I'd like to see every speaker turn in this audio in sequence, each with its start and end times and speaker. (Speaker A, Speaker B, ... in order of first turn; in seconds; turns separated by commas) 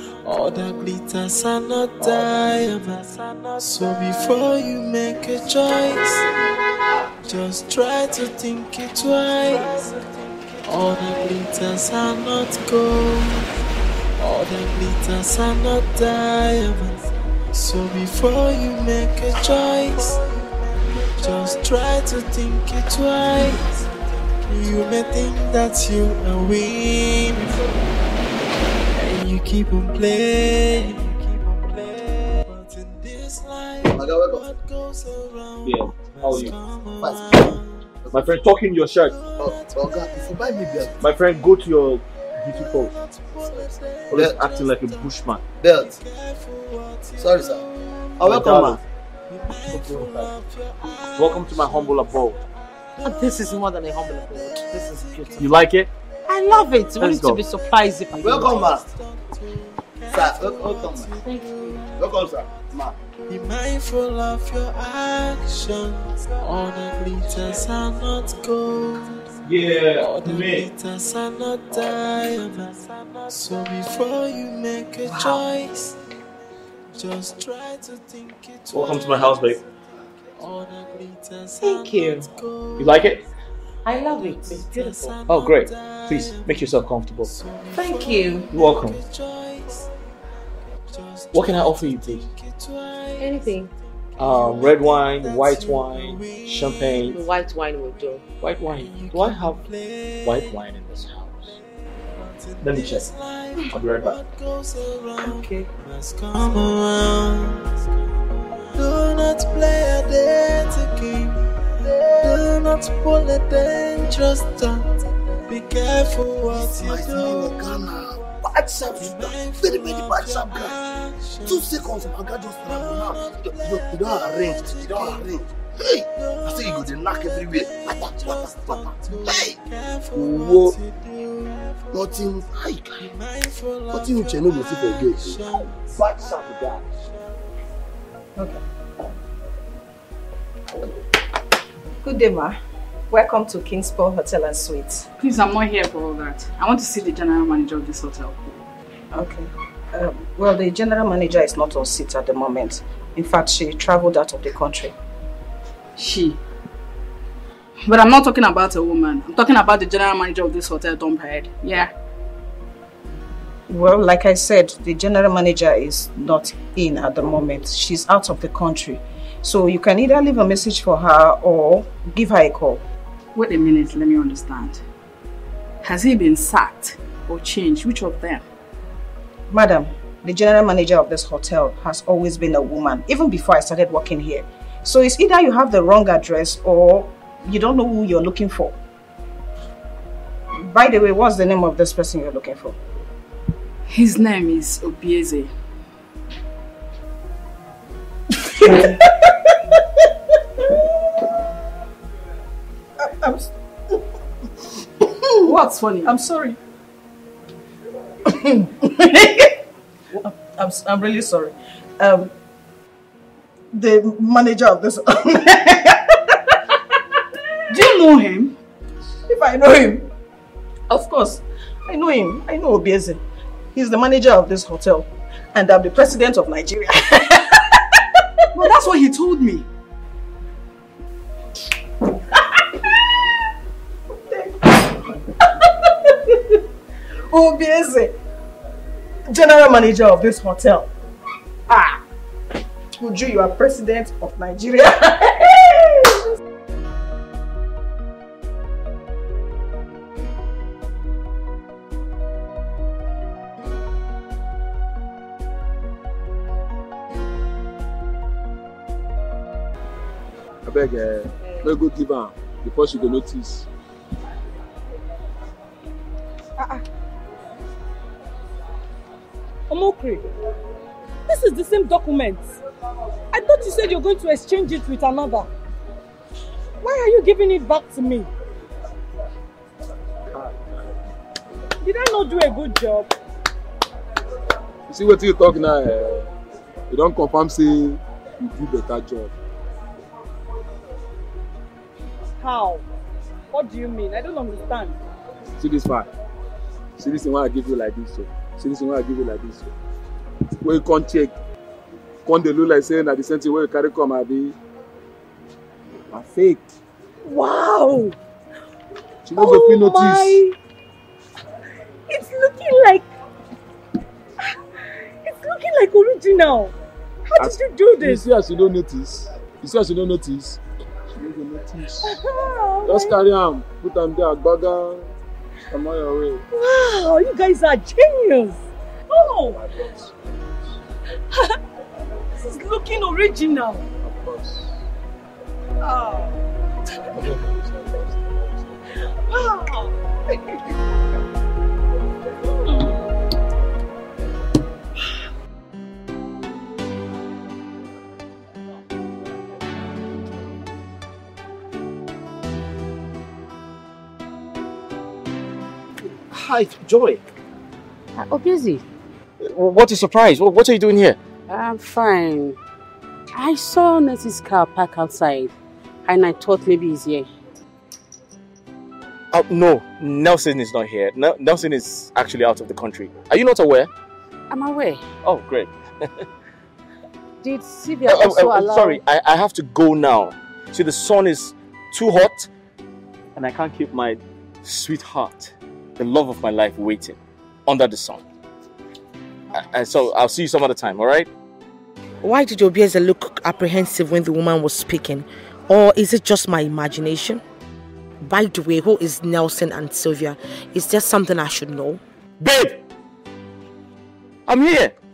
Speaker A: 0.2-6.3, Speaker A: 7.2-10.1, Speaker A: 10.6-13.5, Speaker A: 14.2-20.3, Speaker A: 21.1-23.6, Speaker A: 24.4-27.5, Speaker A: 28.9-37.7, Speaker B: 33.9-34.5, Speaker C: 35.6-36.5, Speaker B: 37.0-37.5, Speaker C: 38.1-39.2, Speaker A: 39.2-40.3, Speaker B: 39.4-41.0, Speaker C: 41.0-42.9, Speaker A: 42.8-45.1, Speaker C: 44.1-45.4, Speaker B: 45.6-45.9, Speaker A: 45.7-48.4, Speaker B: 47.1-47.6, Speaker B: 48.2-48.8, Speaker C: 48.2-48.8, Speaker A: 49.3-51.8, Speaker C: 51.1-52.4, Speaker D: 53.0-55.5, Speaker A: 54.3-55.4, Speaker C: 55.4-55.9, Speaker D: 56.3-58.7, Speaker C: 57.0-57.4, Speaker B: 58.2-58.8, Speaker A: 59.0-62.0, Speaker B: 60.1-61.1, Speaker D: 61.2-61.5, Speaker B: 62.0-62.9, Speaker A: 63.3-69.3, Speaker C: 69.4-70.7, Speaker A: 70.0-76.0, Speaker D: 75.1-75.4, Speaker A: 76.9-79.4, Speaker C: 78.7-79.6, Speaker A: 80.3-83.0, Speaker D: 81.6-82.3, Speaker C: 82.8-83.2, Speaker D: 83.8-85.2, Speaker A: 84.5-86.6, Speaker C: 85.3-87.3, Speaker A: 87.3-89.9, Speaker D: 87.7-88.5, Speaker C: 88.5-89.0, Speaker A: 91.0-91.7, Speaker C: 91.3-92.2, Speaker A: 92.3-93.3, Speaker D: 93.2-93.7, Speaker C: 94.2-97.2, Speaker A: 94.3-96.7, Speaker D: 97.1-98.2, Speaker C: 98.4-99.6, Speaker A: 98.9-100.5, Speaker C: 100.2-101.5, Speaker A: 102.4-107.7, Speaker C: 102.6-103.1, Speaker C: 103.7-104.2, Speaker D: 105.2-105.7, Speaker A: 108.7-111.5, Speaker A: 112.1-114.9, Speaker A: 115.5-118.4, Speaker B: 116.6-120.7, Speaker A: 119.0-125.5, Speaker B: 121.5-129.6, Speaker A: 126.2-132.0, Speaker B: 130.1-130.8, Speaker B: 131.9-133.1, Speaker A: 133.0-136.0, Speaker B: 133.9-135.6, Speaker E: 138.3-138.6, Speaker E: 142.0-142.6, Speaker E: 143.1-145.1, Speaker F: 145.2-148.6, Speaker E: 149.1-154.9, Speaker F: 156.0-156.4, Speaker F: 157.8-161.9, Speaker E: 163.7-172.8, Speaker F: 173.3-174.8, Speaker F: 175.8-178.4, Speaker E: 179.5-188.8, Speaker E: 190.5-192.8, Speaker F: 193.9-195.5, Speaker E: 203.0-203.5, Speaker E: 205.4-206.6, Speaker F: 205.4-206.2, Speaker E: 208.2-209.6, Speaker E: 210.1-212.3, Speaker E: 213.7-216.4, Speaker F: 217.7-218.6, Speaker E: 219.3-220.1, Speaker E: 220.9-223.2, Speaker E: 223.7-227.5, Speaker F: 228.5-229.7, Speaker E: 228.6-228.8, Speaker E: 234.3-236.4, Speaker E: 237.3-238.2, Speaker E: 239.3-240.9, Speaker E: 241.7-242.0, Speaker E: 243.0-246.2, Speaker G: 260.6-263.7, Speaker H: 266.6-266.8, Speaker H: 269.7-270.3, Speaker H: 271.3-272.6, Speaker H: 273.3-275.5, Speaker H: 276.8-278.3, Speaker G: 280.3-280.8, Speaker H: 281.8-283.1, Speaker G: 284.9-286.3, Speaker G: 286.9-289.3, Speaker H: 292.4-292.8, Speaker H: 293.5-295.0, Speaker G: 295.6-296.1, Speaker G: 297.0-299.7, Speaker G: 300.6-301.3, Speaker G: 302.2-304.6, Speaker G: 306.1-306.6, Speaker I: 307.3-308.1, Speaker G: 309.2-310.4, Speaker I: 309.4-310.6, Speaker I: 312.1-313.0, Speaker I: 315.2-316.7, Speaker I: 317.3-318.1, Speaker G: 317.4-320.6, Speaker G: 321.1-322.2, Speaker G: 322.8-325.1, Speaker G: 325.7-326.4, Speaker I: 326.5-328.0, Speaker H: 327.5-328.6, Speaker G: 329.5-330.4, Speaker H: 332.9-333.5, Speaker G: 334.0-334.8, Speaker H: 335.8-336.4, Speaker G: 337.1-338.8, Speaker C: 356.3-357.2, Speaker J: 358.1-358.8, Speaker C: 359.4-361.2, Speaker J: 361.5-362.6, Speaker J: 363.3-367.3, Speaker C: 369.3-373.9, Speaker J: 374.5-375.0, Speaker C: 375.2-375.7, Speaker J: 377.4-379.0, Speaker C: 378.0-382.5, Speaker C: 383.4-388.2, Speaker C: 389.5-391.3, Speaker D: 392.2-397.4, Speaker D: 398.2-402.0, Speaker C: 402.4-402.8, Speaker C: 404.5-404.9